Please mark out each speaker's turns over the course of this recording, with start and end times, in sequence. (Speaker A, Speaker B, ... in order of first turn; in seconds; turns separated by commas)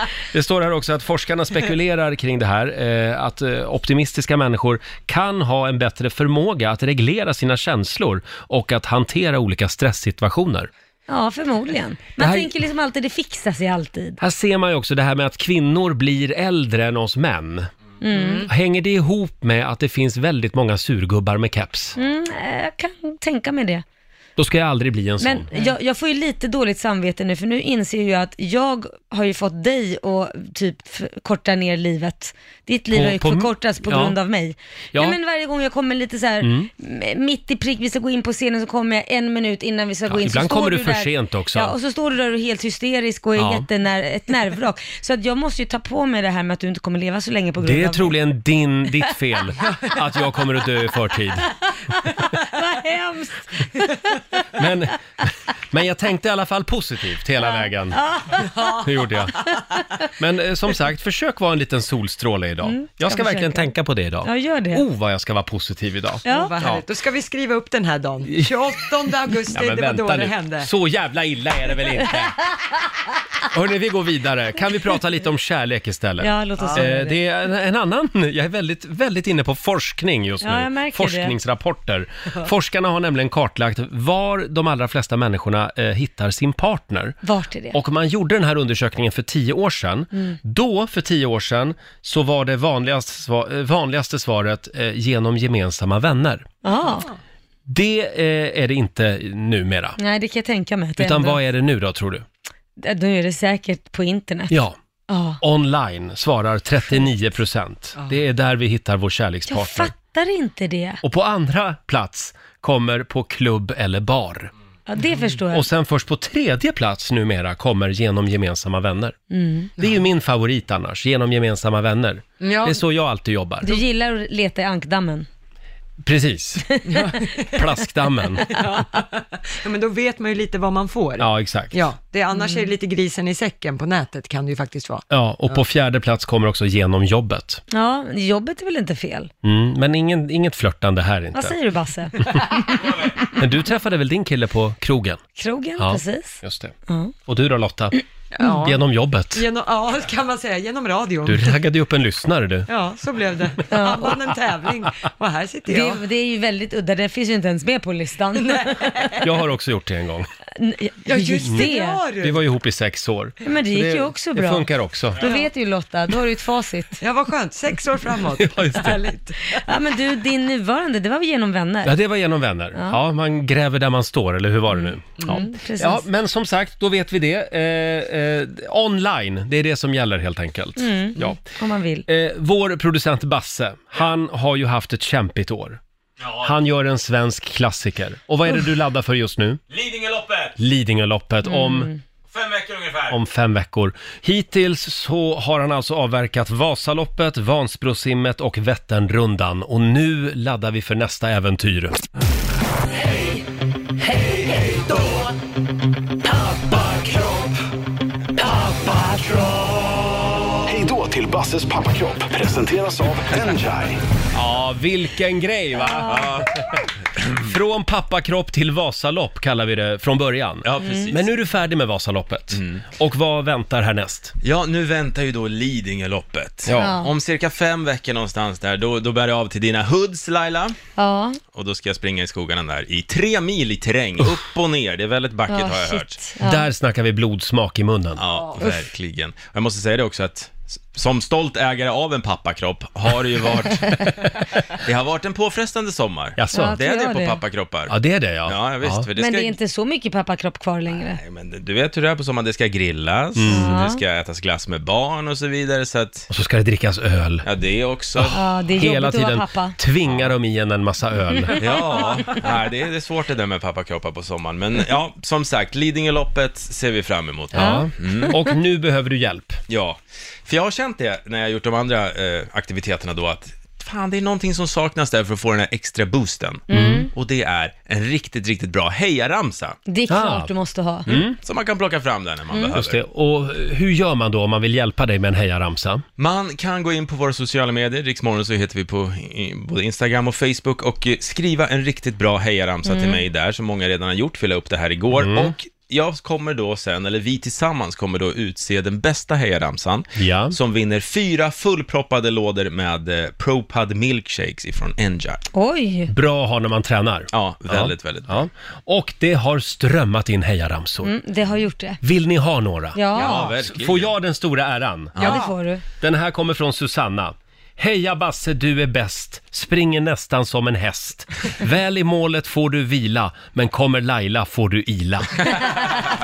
Speaker A: 0.3-10.7, Speaker B: 11.1-14.2, Speaker A: 12.2-12.5, Speaker A: 14.2-17.7, Speaker B: 18.0-18.5, Speaker C: 18.1-18.4, Speaker A: 18.5-21.9, Speaker B: 22.0-23.8, Speaker A: 24.4-25.5, Speaker B: 25.2-48.2, Speaker A: 32.9-34.2, Speaker A: 36.4-36.7, Speaker A: 40.1-41.7, Speaker A: 43.4-43.6, Speaker A: 47.6-51.5, Speaker B: 52.0-54.4, Speaker A: 54.5-58.0, Speaker B: 57.4-59.8, Speaker A: 58.8-59.4, Speaker A: 60.2-66.8, Speaker B: 62.6-63.7, Speaker B: 64.2-64.8, Speaker B: 66.2-66.5, Speaker C: 66.2-70.7, Speaker A: 69.5-72.4, Speaker A: 73.5-87.2, Speaker B: 76.2-77.2, Speaker C: 76.6-76.9, Speaker B: 80.4-81.3, Speaker B: 87.2-87.8, Speaker A: 87.7-96.5, Speaker B: 96.6-97.1, Speaker A: 97.7-100.0, Speaker B: 100.0-101.4, Speaker A: 101.0-102.2, Speaker B: 102.8-104.5, Speaker B: 105.1-105.4, Speaker A: 105.4-109.9, Speaker B: 109.5-111.0, Speaker A: 111.0-114.5, Speaker B: 114.9-115.7, Speaker A: 115.5-119.2, Speaker B: 119.3-119.7, Speaker A: 119.8-123.7, Speaker C: 122.4-122.8, Speaker B: 123.6-125.3, Speaker A: 126.0-126.7, Speaker B: 126.7-127.2, Speaker C: 126.8-127.6, Speaker A: 127.5-128.5, Speaker C: 128.4-135.6, Speaker A: 131.2-131.8, Speaker B: 132.3-132.7, Speaker A: 135.1-137.6, Speaker B: 137.7-139.3, Speaker A: 139.4-141.5, Speaker B: 141.3-143.1, Speaker A: 143.2-145.2, Speaker B: 145.4-147.1, Speaker A: 145.8-146.7, Speaker A: 147.3-148.0, Speaker C: 148.3-151.6, Speaker A: 148.5-149.4, Speaker A: 151.2-152.7, Speaker C: 152.7-156.0, Speaker B: 153.7-154.2, Speaker B: 155.7-159.2, Speaker C: 158.3-159.2, Speaker A: 159.2-160.3, Speaker B: 160.6-162.0, Speaker C: 161.0-162.4, Speaker A: 162.2-165.2, Speaker B: 163.4-167.0, Speaker C: 165.2-165.5, Speaker C: 167.0-169.7, Speaker A: 168.4-169.0, Speaker B: 169.5-171.9, Speaker A: 171.8-181.4, Speaker B: 174.7-176.1, Speaker B: 180.8-182.1, Speaker A: 182.1-185.8, Speaker D: 186.2-186.5, Speaker A: 186.4-189.6, Speaker D: 189.7-190.6, Speaker A: 190.6-191.9, Speaker B: 191.4-192.0, Speaker D: 192.3-193.2, Speaker A: 193.1-202.0, Speaker E: 204.1-205.0, Speaker E: 206.3-207.6, Speaker E: 208.4-209.6, Speaker E: 210.7-214.0, Speaker A: 214.3-224.3, Speaker B: 215.8-216.4, Speaker D: 216.1-216.5, Speaker D: 220.6-221.3, Speaker B: 220.8-221.1, Speaker D: 222.5-222.8, Speaker D: 224.4-230.8, Speaker A: 226.7-227.0, Speaker B: 226.8-227.1, Speaker B: 231.0-231.4, Speaker D: 231.5-236.2, Speaker B: 235.5-236.7, Speaker A: 236.4-238.2, Speaker D: 238.2-244.0, Speaker D: 244.8-247.9, Speaker A: 246.3-246.8, Speaker B: 246.5-247.4, Speaker A: 247.9-249.1, Speaker D: 248.4-249.6, Speaker B: 249.2-251.2, Speaker D: 251.0-256.2, Speaker A: 253.3-253.7, Speaker B: 253.5-254.0, Speaker A: 256.3-257.4, Speaker D: 257.4-258.4, Speaker A: 258.1-261.6, Speaker B: 258.3-259.8, Speaker D: 260.1-260.3, Speaker B: 261.4-262.0, Speaker D: 261.6-268.3, Speaker A: 267.5-269.6, Speaker B: 267.5-268.4, Speaker D: 269.7-279.8, Speaker B: 276.7-277.1, Speaker A: 276.7-277.1, Speaker B: 279.9-281.1, Speaker A: 280.1-280.5, Speaker A: 281.1-281.4, Speaker D: 281.1-283.0, Speaker A: 282.7-286.0, Speaker D: 286.2-305.4, Speaker B: 292.8-293.2, Speaker A: 295.1-295.5, Speaker A: 300.1-300.6, Speaker B: 305.5-306.1, Speaker A: 306.1-311.1, Speaker D: 307.3-308.4, Speaker B: 311.0-312.0, Speaker A: 312.0-315.4, Speaker B: 312.9-313.5, Speaker D: 313.1-314.1, Speaker D: 315.1-315.4, Speaker B: 315.2-315.8, Speaker A: 316.0-325.7